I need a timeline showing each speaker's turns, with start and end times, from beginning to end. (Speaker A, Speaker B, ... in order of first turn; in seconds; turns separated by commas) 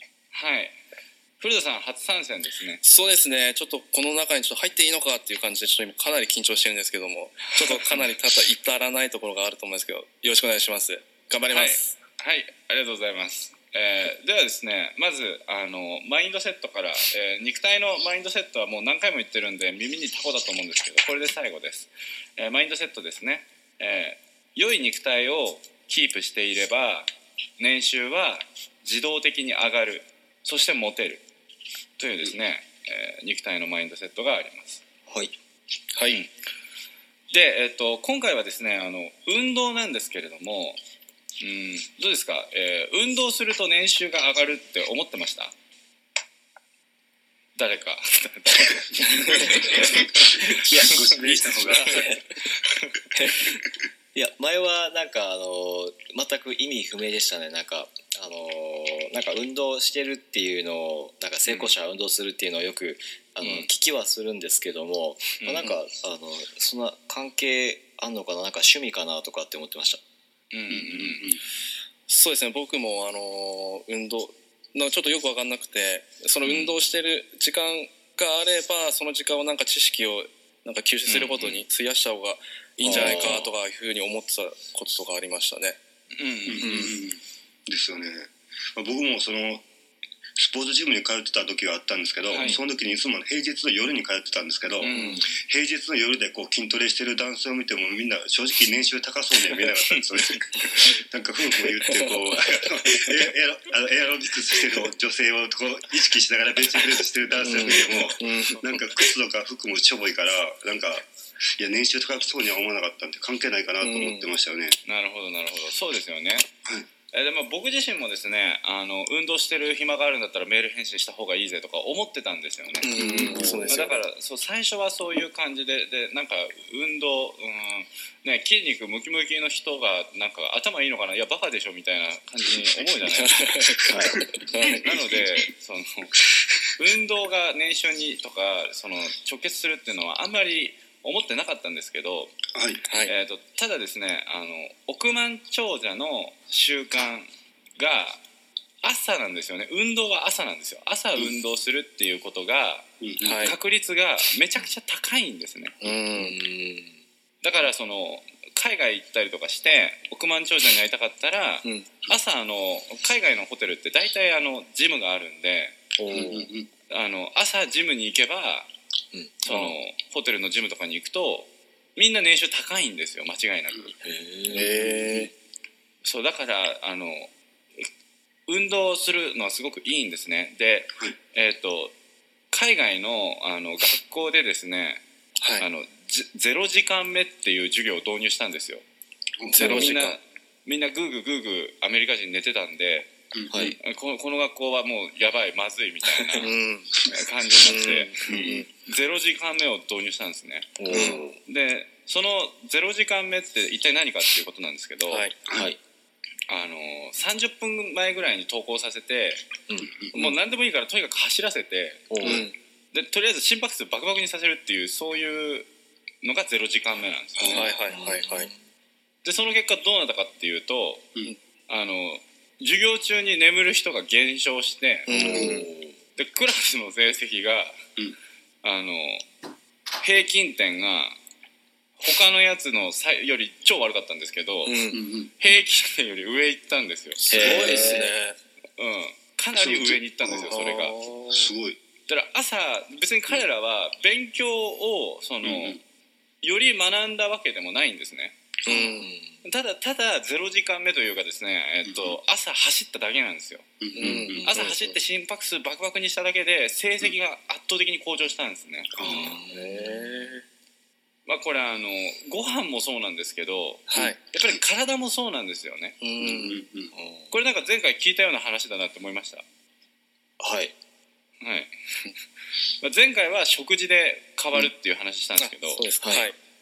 Speaker A: 0.3-0.8, Speaker A: 1.4-2.8, Speaker B: 2.8-12.0, Speaker A: 11.5-27.1, Speaker A: 27.6-31.2, Speaker A: 32.0-34.8, Speaker C: 35.1-35.3, Speaker B: 35.9-36.2, Speaker A: 37.3-40.8, Speaker A: 41.4-45.5, Speaker A: 47.6-50.1, Speaker D: 49.8-52.2, Speaker B: 50.7-52.2, Speaker B: 53.1-53.4, Speaker C: 54.1-70.0, Speaker A: 61.5-61.7, Speaker A: 63.4-63.7, Speaker A: 65.4-65.8, Speaker A: 70.5-71.3, Speaker D: 70.7-71.4, Speaker B: 72.1-85.8, Speaker C: 76.5-76.7, Speaker A: 81.1-81.6, Speaker C: 82.8-83.5, Speaker A: 82.9-83.3, Speaker A: 86.2-86.9, Speaker D: 86.5-89.7, Speaker B: 86.6-87.0, Speaker D: 90.4-114.8, Speaker A: 92.3-92.6, Speaker A: 94.8-95.4, Speaker B: 94.9-95.2, Speaker B: 101.9-102.2, Speaker B: 107.4-108.8, Speaker B: 113.8-114.3, Speaker A: 114.9-116.5, Speaker A: 117.1-133.8, Speaker B: 122.8-124.0, Speaker C: 123.0-123.9, Speaker B: 133.1-135.1, Speaker C: 133.9-134.2, Speaker A: 134.6-136.1, Speaker A: 136.8-142.4, Speaker D: 142.5-142.8, Speaker B: 142.9-143.1, Speaker A: 143.0-148.2, Speaker A: 148.8-152.9, Speaker D: 153.0-153.6, Speaker B: 153.2-153.6, Speaker A: 153.4-155.9, Speaker B: 155.8-156.4, Speaker C: 156.1-156.9, Speaker A: 157.4-165.8, Speaker B: 161.6-161.9, Speaker B: 166.0-166.3, Speaker C: 166.1-166.5, Speaker D: 166.1-166.7, Speaker A: 166.9-168.7, Speaker C: 169.1-169.4, Speaker A: 169.4-174.0, Speaker B: 169.5-169.7, Speaker C: 174.0-174.9, Speaker B: 174.5-175.3, Speaker D: 174.5-175.2, Speaker A: 176.0-177.8, Speaker A: 178.5-181.9, Speaker A: 182.5-185.0, Speaker B: 185.4-185.7, Speaker A: 185.6-188.8, Speaker D: 189.4-189.9, Speaker B: 189.5-190.2, Speaker A: 189.5-193.1, Speaker C: 193.5-193.8, Speaker A: 193.8-196.5, Speaker B: 196.4-198.7, Speaker A: 197.1-205.3, Speaker C: 200.8-201.4, Speaker B: 200.9-201.2, Speaker B: 205.1-205.4, Speaker C: 205.5-205.8, Speaker A: 206.5-209.4, Speaker D: 209.8-210.1, Speaker A: 210.1-212.2, Speaker C: 212.1-212.5, Speaker B: 212.2-212.6, Speaker A: 212.9-215.7, Speaker A: 216.2-217.8, Speaker D: 217.4-217.8, Speaker B: 217.5-218.5, Speaker C: 217.9-218.6, Speaker A: 219.2-221.1, Speaker A: 221.7-225.4, Speaker B: 225.1-225.7, Speaker C: 225.1-226.0, Speaker A: 226.2-227.8, Speaker A: 228.6-229.2, Speaker A: 230.0-231.2, Speaker A: 232.0-234.8, Speaker B: 234.7-235.0, Speaker D: 234.9-235.3, Speaker A: 235.4-238.0, Speaker C: 237.3-238.1, Speaker B: 237.3-238.4, Speaker D: 237.4-237.7, Speaker A: 238.8-241.1, Speaker D: 239.5-240.7, Speaker B: 240.6-241.5, Speaker D: 241.3-241.8, Speaker A: 242.1-245.8, Speaker D: 245.4-245.8, Speaker A: 246.4-248.3, Speaker D: 248.7-248.9, Speaker B: 248.7-249.1, Speaker C: 248.9-249.4, Speaker A: 249.4-253.7, Speaker D: 251.9-252.2, Speaker D: 253.8-254.5, Speaker B: 253.9-254.9, Speaker A: 254.4-259.0, Speaker D: 259.0-259.4, Speaker C: 259.0-260.3, Speaker B: 259.5-260.4, Speaker A: 261.3-266.0, Speaker B: 263.9-264.2, Speaker B: 266.0-266.6, Speaker D: 266.2-266.9, Speaker C: 266.9-267.4, Speaker A: 267.3-269.4, Speaker C: 270.4-270.7, Speaker A: 271.4-271.7, Speaker A: 272.8-275.9, Speaker B: 275.4-276.4, Speaker C: 276.0-276.3